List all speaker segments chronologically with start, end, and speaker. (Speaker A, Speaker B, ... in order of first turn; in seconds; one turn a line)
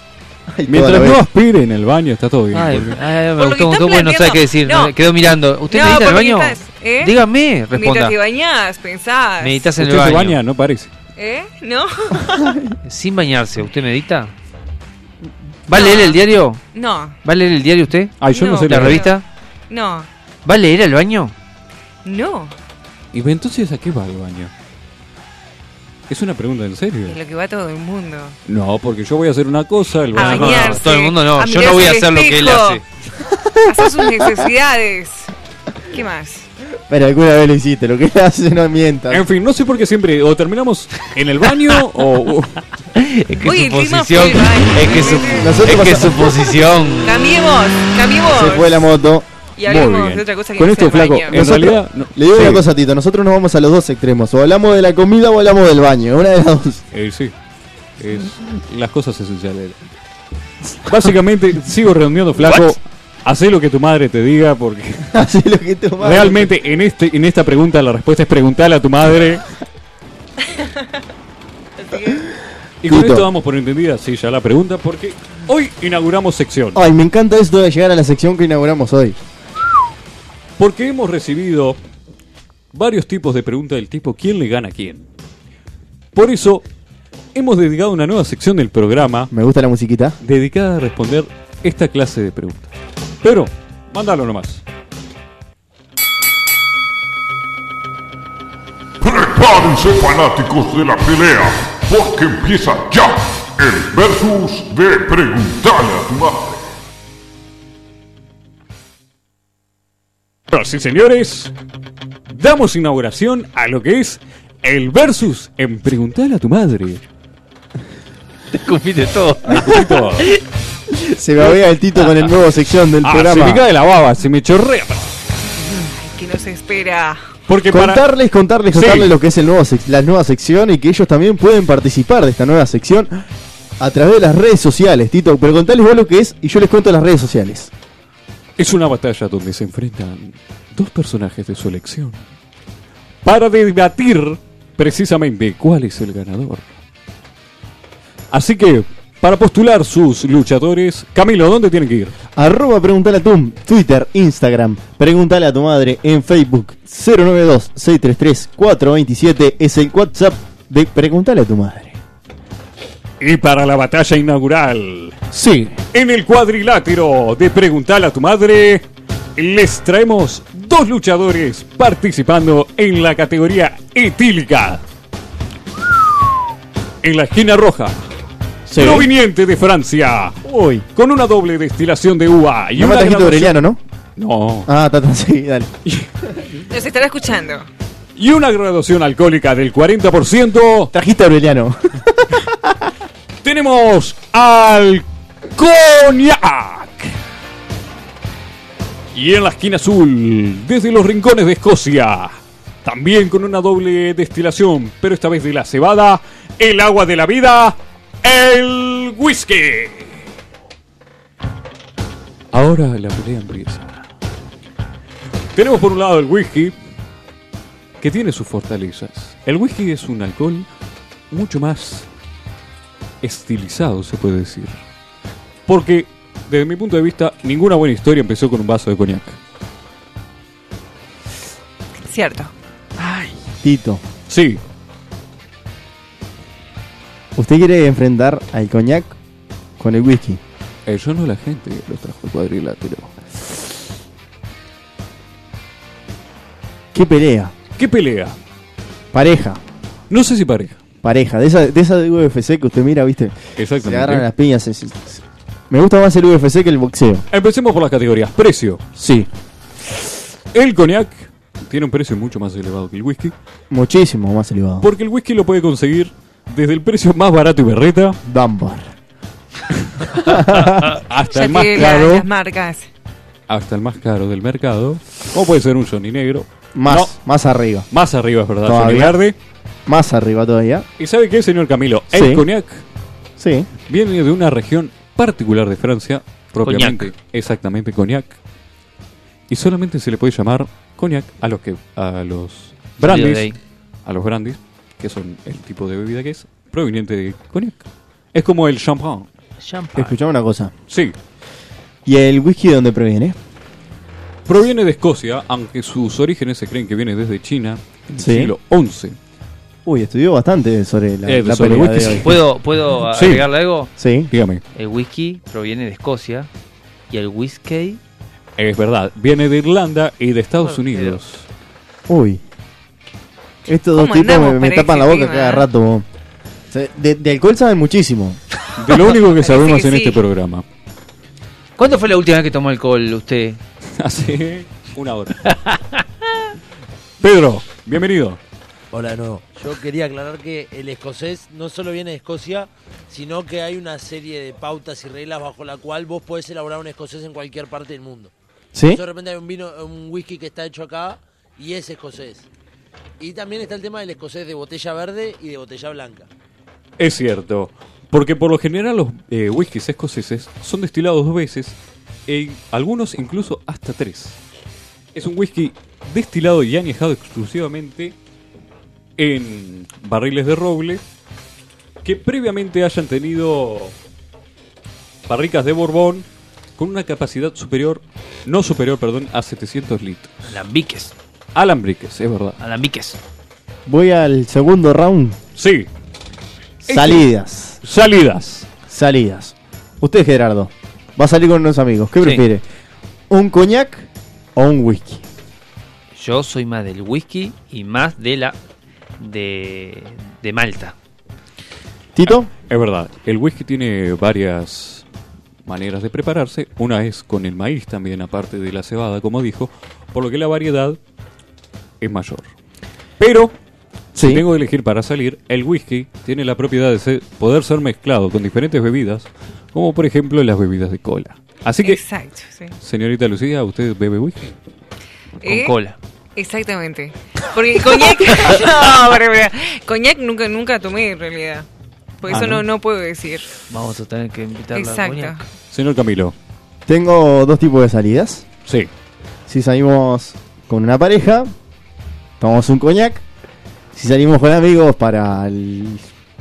Speaker A: 0.5-1.3
Speaker B: 0.7-3.0
Speaker C: 2.5-8.2
Speaker D: 3.4-4.9
Speaker D: 5.7-7.2
Speaker D: 7.7-9.7
Speaker C: 9.4-10.4
Speaker B: 9.8-10.9
Speaker D: 11.2-12.6
Speaker A: 12.3-12.7
Speaker C: 12.8-14.3
Speaker C: 15.7-16.6
Speaker D: 15.7-16.2
Speaker D: 16.7-17.2
Speaker C: 17.2-19.2
Speaker B: 18.2-19.1
Speaker D: 18.3-19.2
Speaker D: 19.7-20.1
Speaker C: 20.4-21.3
Speaker D: 22.0-22.6
Speaker B: 23.1-24.5
Speaker B: 26.1-27.2
Speaker D: 27.1-28.4
Speaker B: 28.4-30.9
Speaker D: 30.1-32.8
Speaker C: 30.1-32.8
Speaker A: 33.2-34.5
Speaker D: 33.6-35.3
Speaker D: 35.9-36.5
Speaker A: 36.9-39.2
Speaker B: 39.1-42.6
Speaker C: 42.9-47.4
Speaker D: 43.4-45.6
Speaker A: 45.3-46.6
Speaker D: 47.0-48.9
Speaker A: 48.3-49.3
Speaker D: 49.6-51.4
Speaker B: 49.6-52.6
Speaker A: 51.3-56.8
Speaker B: 56.9-57.3
Speaker B: 58.0-59.8
Speaker B: 60.8-65.1
Speaker A: 62.4-62.7
Speaker A: 65.1-66.5
Speaker B: 66.0-69.4
Speaker D: 71.8-72.2
Speaker B: 72.8-76.8
Speaker A: 72.8-73.3
Speaker A: 76.7-79.2
Speaker B: 80.6-81.8
Speaker B: 82.7-85.0
Speaker B: 86.1-86.6
Speaker B: 87.3-89.3
Speaker A: 89.3-90.2
Speaker B: 90.2-92.7
Speaker B: 93.2-94.6
Speaker E: 99.0-106.6
Speaker B: 110.5-111.5
Speaker B: 112.3-117.0
Speaker C: 118.5-120.4
Speaker B: 119.5-120.3
Speaker A: 120.9-123.6
Speaker B: 123.0-125.0
Speaker D: 125.7-127.2
Speaker B: 127.5-128.0
Speaker A: 127.7-133.2
Speaker B: 128.7-129.1
Speaker A: 133.8-137.7
Speaker B: 138.6-142.2
Speaker B: 143.2-146.7
Speaker B: 148.3-152.1
Speaker A: 152.3-162.0
Speaker B: 163.2-165.2
Speaker A: 165.3-165.8
Speaker B: 165.9-168.8
Speaker B: 169.3-174.8
Speaker B: 177.0-178.0
Speaker A: 178.7-179.1
Speaker B: 178.8-180.4
Speaker A: 180.4-180.8
Speaker B: 180.9-183.6
Speaker A: 182.8-183.8
Speaker B: 184.2-184.7
Speaker A: 184.7-185.7
Speaker D: 186.7-187.7
Speaker B: 188.2-190.9
Speaker A: 190.9-192.9
Speaker B: 193.4-197.1
Speaker B: 199.1-210.2
Speaker B: 212.5-214.0
Speaker B: 215.5-216.7
Speaker B: 218.0-220.7
Speaker B: 221.3-222.1
Speaker B: 223.2-224.8
Speaker B: 225.7-229.4
Speaker D: 232.0-232.5
Speaker B: 233.0-233.3
Speaker A: 233.6-234.0
Speaker B: 234.3-234.6
Speaker A: 237.3-239.2
Speaker A: 239.8-240.4
Speaker B: 240.8-243.7
Speaker A: 246.9-247.5
Speaker B: 247.8-248.3
Speaker A: 249.1-249.6
Speaker B: 250.1-250.8
Speaker A: 251.0-257.2
Speaker B: 253.6-254.3
Speaker B: 257.3-258.8
Speaker A: 259.0-259.3
Speaker B: 260.5-263.3
Speaker A: 263.7-264.9
Speaker B: 264.8-268.2
Speaker A: 268.2-268.9
Speaker A: 270.1-271.0
Speaker B: 270.1-272.3
Speaker D: 271.3-272.9
Speaker B: 273.5-277.1
Speaker A: 276.8-277.9
Speaker B: 277.9-279.3
Speaker A: 278.6-279.2
Speaker A: 279.9-280.9
Speaker B: 281.0-282.8
Speaker A: 282.1-282.4
Speaker A: 283.4-283.7
Speaker B: 283.9-288.4
Speaker C: 286.6-287.1
Speaker B: 289.5-293.5
Speaker C: 293.0-293.6
Speaker B: 294.0-299.3
Speaker C: 299.6-300.1
Speaker A: 299.9-300.7
Speaker A: 302.0-303.4
Speaker B: 304.4-309.1
Speaker A: 308.2-308.5
Speaker A: 309.9-312.3
Speaker B: 311.2-312.4
Speaker C: 312.2-313.9
Speaker B: 313.1-313.4
Speaker A: 314.0-314.3
Speaker B: 314.3-314.6
Speaker C: 314.7-316.5
Speaker C: 317.1-318.0
Speaker B: 318.6-321.4
Speaker C: 320.6-321.2
Speaker A: 322.1-322.4
Speaker A: 323.6-326.1
Speaker D: 323.9-325.6
Speaker A: 326.7-328.4
Speaker B: 328.8-330.6
Speaker D: 329.1-330.2
Speaker C: 331.8-333.6
Speaker B: 334.0-335.5
Speaker C: 335.5-336.0
Speaker B: 337.2-338.4
Speaker F: 338.9-348.3
Speaker A: 348.7-349.0
Speaker F: 348.9-352.5
Speaker F: 353.2-356.3
Speaker B: 357.0-361.8
Speaker B: 362.3-364.4
Speaker B: 365.1-368.1
Speaker B: 369.2-371.0
Speaker B: 372.0-373.9
Speaker B: 375.3-376.2
Speaker B: 376.8-380.5
Speaker C: 380.5-381.1
Speaker B: 381.5-382.6
Speaker C: 382.6-383.2
Speaker A: 383.9-385.4
Speaker B: 385.6-385.9
Speaker B: 386.8-387.3
Speaker A: 386.9-387.8
Speaker B: 387.8-388.7
Speaker A: 388.9-392.6
Speaker A: 393.3-395.2
Speaker C: 396.1-398.6
Speaker C: 399.2-400.9
Speaker A: 402.1-402.5
Speaker B: 402.7-405.0
Speaker B: 405.6-411.0
Speaker B: 412.0-412.4
Speaker B: 413.2-413.5
Speaker A: 414.1-414.4
Speaker B: 414.1-422.0
Speaker D: 421.8-422.7
Speaker B: 422.8-424.6
Speaker C: 425.4-425.9
Speaker D: 425.4-425.7
Speaker D: 426.4-431.6
Speaker D: 432.2-433.5
Speaker B: 432.3-432.7
Speaker C: 433.7-435.4
Speaker D: 434.7-435.4
Speaker B: 435.7-436.3
Speaker A: 436.9-438.4
Speaker A: 439.5-441.5
Speaker A: 442.4-443.2
Speaker A: 443.9-446.0